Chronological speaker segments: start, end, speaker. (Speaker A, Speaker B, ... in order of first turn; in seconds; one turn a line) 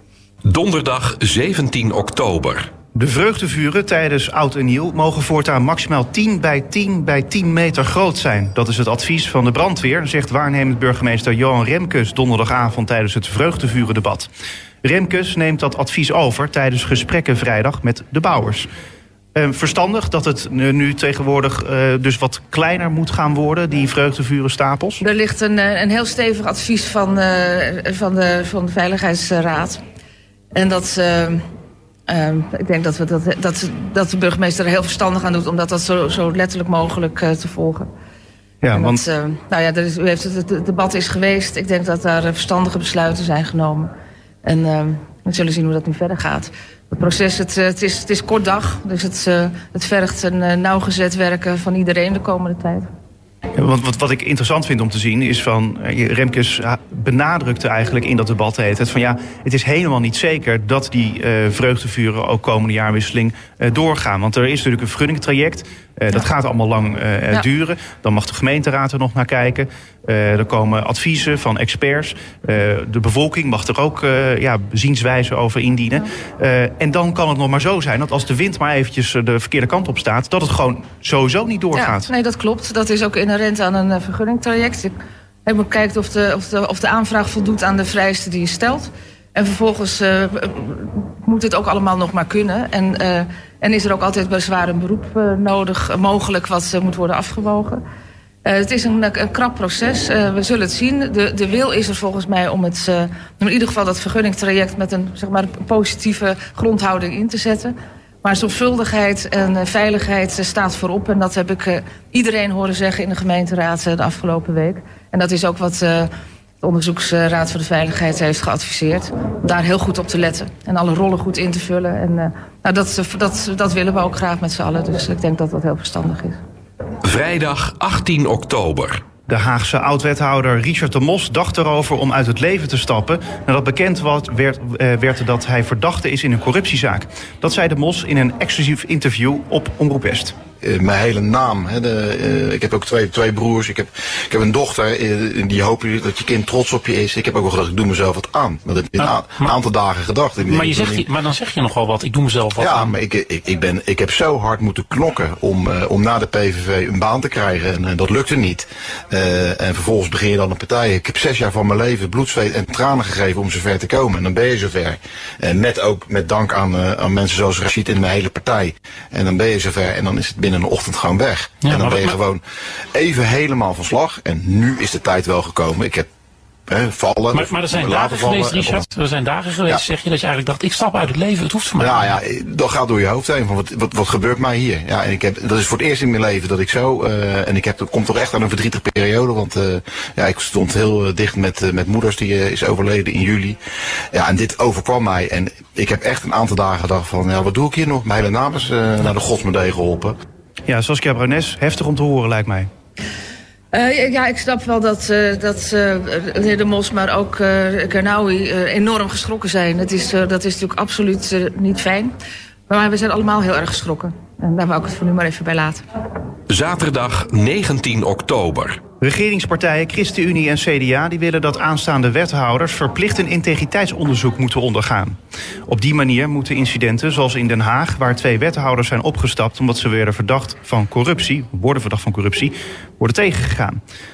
Speaker A: 0.5-2.7
Speaker B: 3.0-14.3
Speaker B: 14.8-18.7
Speaker B: 19.4-25.0
Speaker C: 25.0-29.8
Speaker C: 30.5-31.4
Speaker C: 32.1-37.9
Speaker B: 38.6-39.0
Speaker C: 38.7-43.9
Speaker C: 44.4-52.9
Speaker B: 53.5-82.1
Speaker C: 81.8-97.8
Speaker C: 98.5-116.1
Speaker C: 116.6-126.4
Speaker A: 127.0-129.0
Speaker B: 129.3-140.4
Speaker D: 140.6-151.1
Speaker E: 149.0-149.5
Speaker E: 150.4-152.9
Speaker D: 152.6-172.4
Speaker E: 171.6-172.2
Speaker D: 172.9-176.1
Speaker D: 176.7-178.8
Speaker E: 177.3-182.0
Speaker D: 181.8-193.6
Speaker D: 194.1-200.1
Speaker B: 200.7-202.7
Speaker C: 203.7-212.1
Speaker C: 212.7-215.8
Speaker A: 216.5-218.8
Speaker B: 219.0-233.8